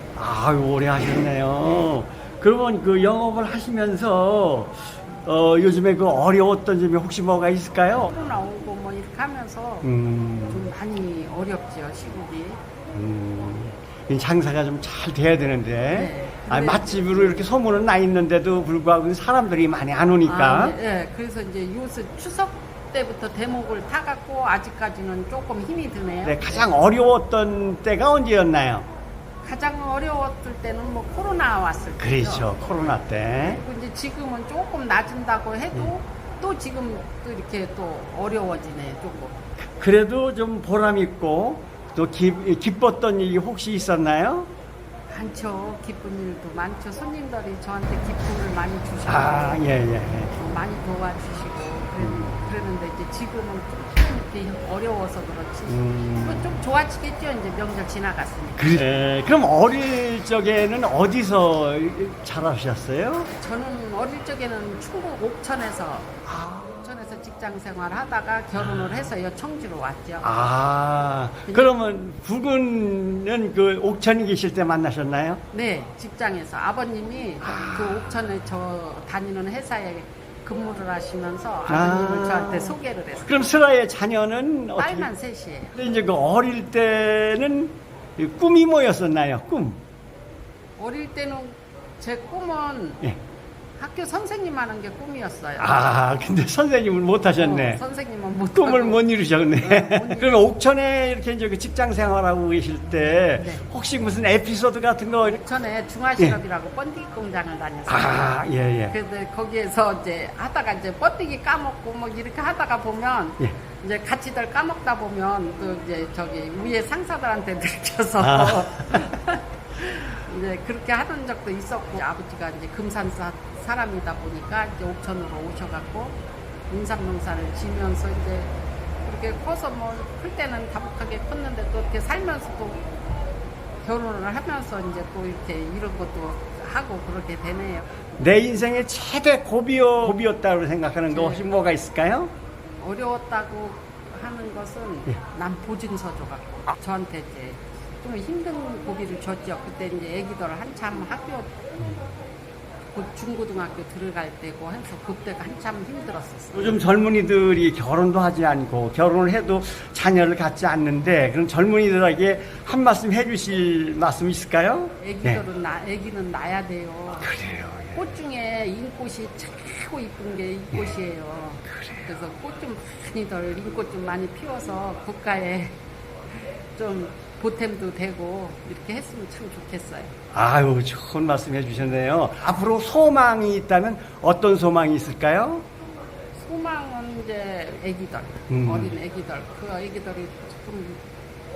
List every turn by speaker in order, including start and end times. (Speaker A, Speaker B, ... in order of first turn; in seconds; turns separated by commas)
Speaker A: 0.1-8.2, Speaker B: 8.1-9.9, Speaker A: 9.8-10.7, Speaker B: 10.5-12.6, Speaker A: 12.9-20.8, Speaker B: 15.9-17.4, Speaker B: 20.2-26.7, Speaker A: 26.2-28.9, Speaker B: 29.4-39.4, Speaker A: 32.0-33.6, Speaker A: 39.8-44.5, Speaker B: 45.1-49.7, Speaker A: 49.0-50.3, Speaker B: 50.3-58.8, Speaker A: 52.0-52.7, Speaker A: 55.7-56.6, Speaker A: 58.6-63.3, Speaker B: 63.3-66.2, Speaker A: 66.2-66.8, Speaker B: 66.7-70.3, Speaker A: 68.6-69.1, Speaker A: 70.2-75.4, Speaker B: 71.5-71.7, Speaker B: 75.5-83.5, Speaker A: 77.4-78.3, Speaker A: 81.7-85.1, Speaker B: 84.8-85.8, Speaker A: 85.7-89.8, Speaker B: 90.8-93.0, Speaker B: 93.8-96.0, Speaker A: 95.6-97.8, Speaker B: 97.3-99.0, Speaker A: 98.4-105.4, Speaker B: 99.6-100.4, Speaker B: 103.4-103.7, Speaker B: 105.2-126.2, Speaker A: 107.9-108.9, Speaker A: 118.2-119.1, Speaker B: 126.7-132.8, Speaker B: 133.8-137.8, Speaker A: 138.2-142.3, Speaker B: 141.1-141.4, Speaker B: 142.8-151.6, Speaker A: 151.8-152.2, Speaker B: 152.9-156.8, Speaker A: 156.5-165.4, Speaker B: 165.0-167.3, Speaker A: 167.2-168.1, Speaker B: 167.9-175.8, Speaker A: 171.7-172.1, Speaker B: 176.7-180.1, Speaker A: 180.3-185.7, Speaker B: 186.3-191.0, Speaker A: 188.5-188.9